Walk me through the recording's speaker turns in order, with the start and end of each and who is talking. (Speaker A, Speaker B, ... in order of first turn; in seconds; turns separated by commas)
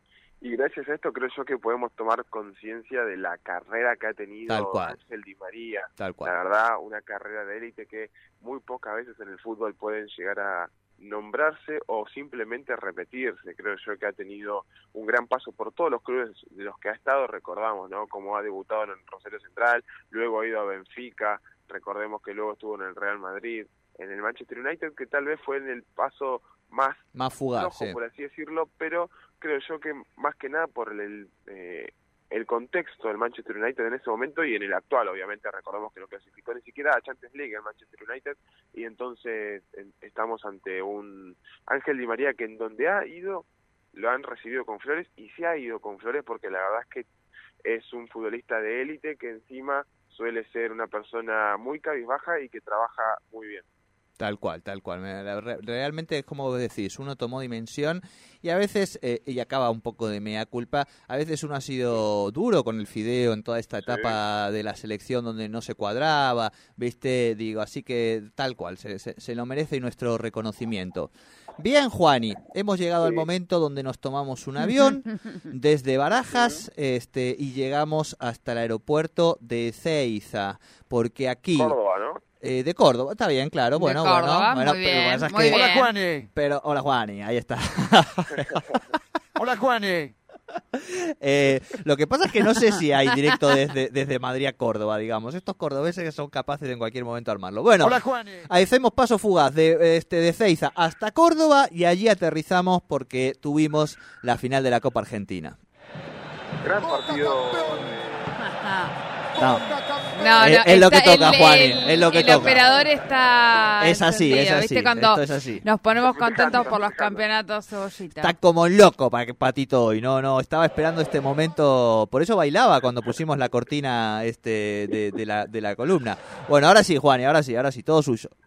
Speaker A: 0.4-47.1, Speaker B: 4.5-5.0, Speaker B: 6.0-6.3, Speaker B: 27.1-28.0, Speaker A: 47.6-53.6, Speaker B: 54.2-81.8, Speaker A: 63.9-64.2, Speaker A: 73.0-73.3, Speaker A: 76.3-76.6, Speaker A: 81.5-82.2, Speaker B: 82.4-85.8, Speaker C: 83.8-85.9, Speaker D: 85.5-86.3, Speaker B: 86.3-88.8, Speaker D: 89.4-90.1, Speaker B: 90.7-105.6, Speaker D: 97.8-98.5, Speaker A: 106.6-108.4, Speaker C: 108.4-108.9, Speaker B: 109.4-109.7, Speaker C: 110.1-118.3, Speaker B: 110.4-112.7, Speaker B: 113.8-115.6, Speaker A: 116.0-117.2, Speaker B: 118.2-128.3